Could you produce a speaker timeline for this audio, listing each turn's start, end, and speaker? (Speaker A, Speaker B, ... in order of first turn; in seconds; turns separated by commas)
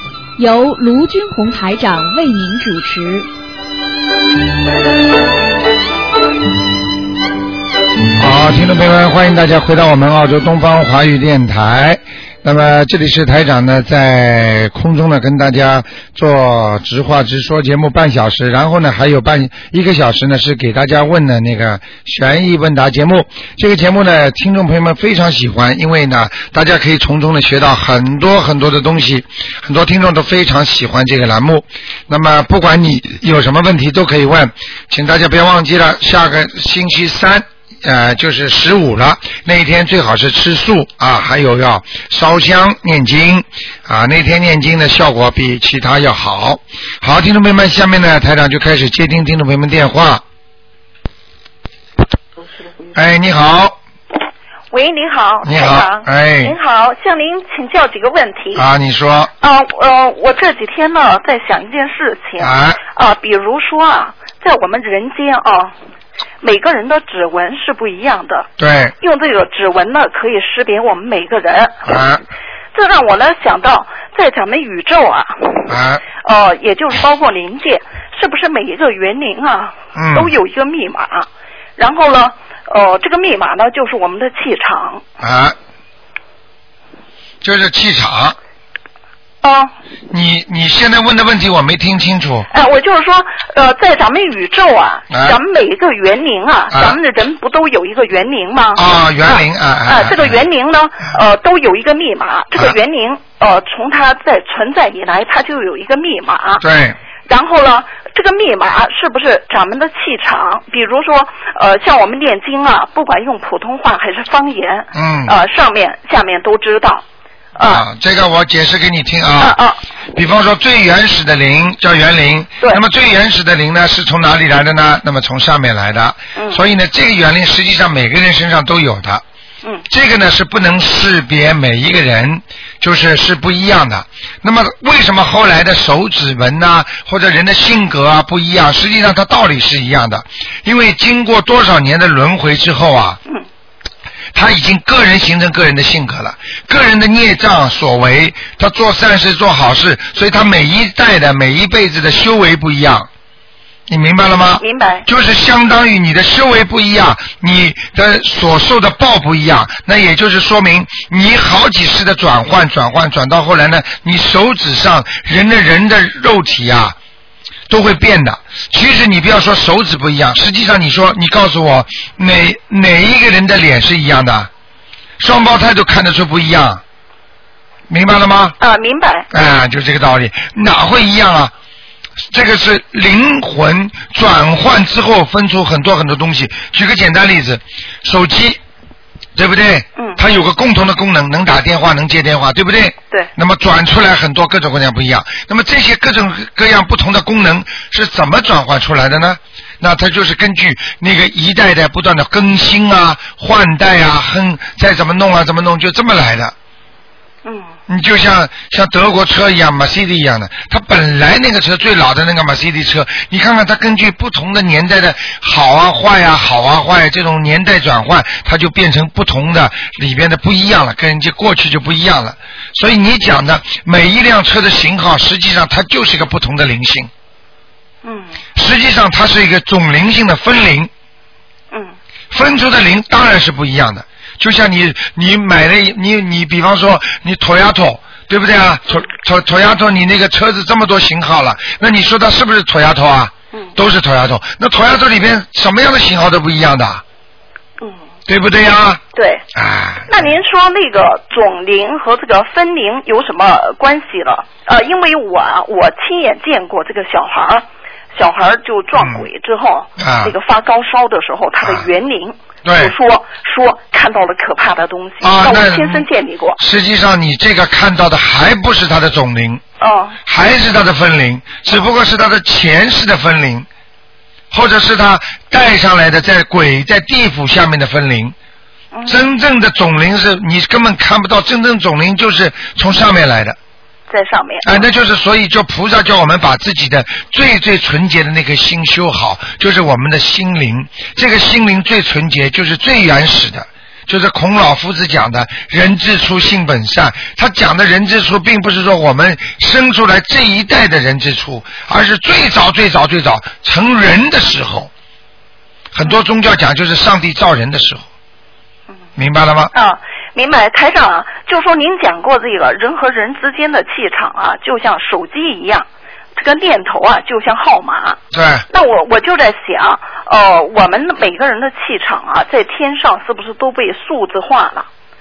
Speaker A: 0.4-3.3, Speaker B: 8.2-50.2, Speaker B: 52.9-53.8, Speaker C: 54.7-58.6, Speaker B: 55.4-56.5, Speaker B: 58.5-59.3, Speaker C: 59.4-65.7, Speaker B: 62.4-62.8, Speaker C: 66.4-68.5, Speaker B: 68.6-68.9, Speaker C: 69.0-71.8, Speaker B: 71.8-72.2, Speaker C: 72.7-85.0, Speaker B: 75.7-76.0, Speaker B: 79.9-80.3, Speaker B: 85.2-85.5, Speaker B: 87.4-88.4, Speaker C: 89.4-89.7, Speaker B: 90.1-92.5, Speaker C: 92.5-106.6, Speaker B: 95.1-95.4, Speaker B: 96.7-97.0, Speaker B: 98.7-100.4, Speaker B: 106.6-107.0, Speaker C: 107.3-117.0, Speaker B: 114.9-115.3, Speaker C: 117.5-117.8, Speaker B: 117.6-119.5, Speaker C: 119.4-119.8, Speaker B: 120.1-129.2, Speaker B: 129.9-143.2, Speaker B: 144.3-153.1, Speaker B: 153.9-166.9, Speaker C: 154.6-155.0, Speaker B: 167.7-174.5, Speaker B: 175.2-176.8, Speaker B: 177.9-178.5, Speaker C: 178.6-179.3, Speaker B: 179.3-181.5, Speaker B: 182.3-188.6, Speaker B: 189.3-206.5, Speaker C: 190.0-190.2, Speaker C: 207.4-207.7, Speaker B: 207.9-227.1, Speaker C: 228.0-228.4, Speaker B: 228.5-230.9, Speaker B: 232.3-247.0, Speaker B: 248.3-249.0, Speaker C: 249.1-249.4, Speaker B: 249.5-250.3, Speaker C: 250.1-266.6, Speaker B: 259.0-259.2, Speaker B: 260.0-260.3, Speaker B: 262.6-262.9, Speaker B: 265.2-266.1, Speaker B: 266.6-269.6, Speaker C: 269.8-270.2, Speaker B: 270.2-273.7, Speaker B: 274.5-278.3, Speaker C: 278.9-279.3, Speaker B: 279.1-283.6, Speaker C: 284.1-284.8, Speaker B: 284.6-304.9, Speaker B: 305.9-308.0, Speaker B: 309.2-309.7, Speaker C: 309.7-318.2, Speaker B: 318.3-318.6, Speaker C: 318.7-324.9